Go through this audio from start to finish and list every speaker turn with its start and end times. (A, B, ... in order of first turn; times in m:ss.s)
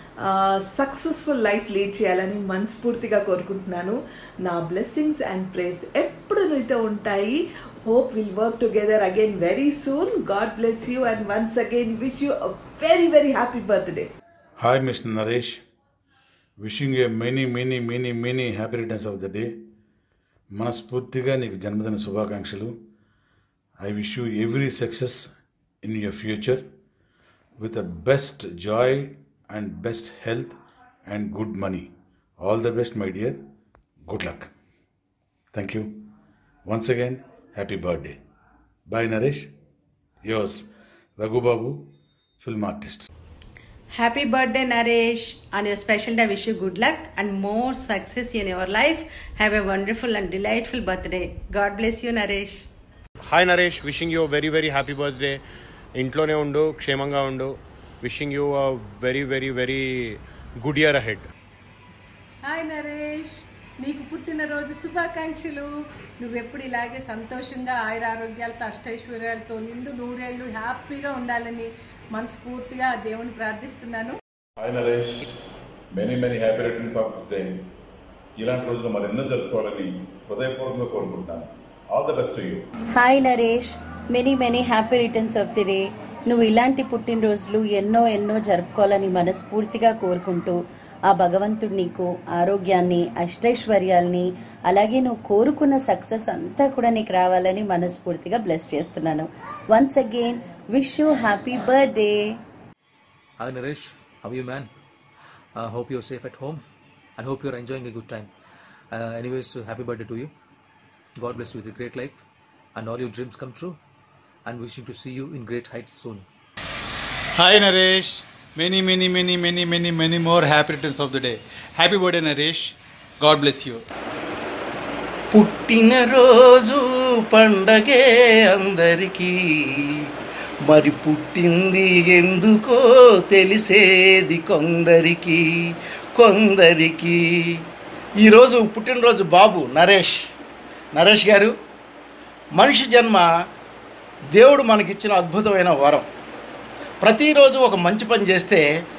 0:00.2-0:14.1 A
0:14.6-0:15.6 B
0:16.6-0:19.6 B
0:20.5-0:22.8 B
0:23.8-0:25.3 B
0:25.8-0:26.6 B
0:27.6-0:33.4 B
0:34.1-0:34.5 B
0:35.5-0:36.1 B
0:36.7-0:38.2 B
0:38.9-0:39.5 B
0:40.3-0:41.9 B
0:42.4-0:43.1 B
0:43.9-0:52.6 C
0:53.3-0:55.4 D
0:56.0-1:01.3 D
1:02.4-1:14.2 E
1:14.6-1:15.3 F
1:15.9-1:17.6 F
1:18.4-1:22.6 F
1:23.0-1:42.4 G
1:43.4-1:44.7 H
1:45.6-1:46.6 H
1:47.2-1:48.3 H
1:49.0-1:50.3 H
1:51.2-1:52.2 H
1:52.8-1:53.8 H
1:54.5-1:56.2 H
1:57.4-2:03.8 I
2:05.3-2:09.3 J
2:10.7-2:15.4 J
2:16.2-2:17.2 J
2:18.2-2:20.2 J
2:20.9-2:21.5 J
2:22.6-2:23.2 J
2:24.3-2:26.1 J
2:27.0-2:28.6 J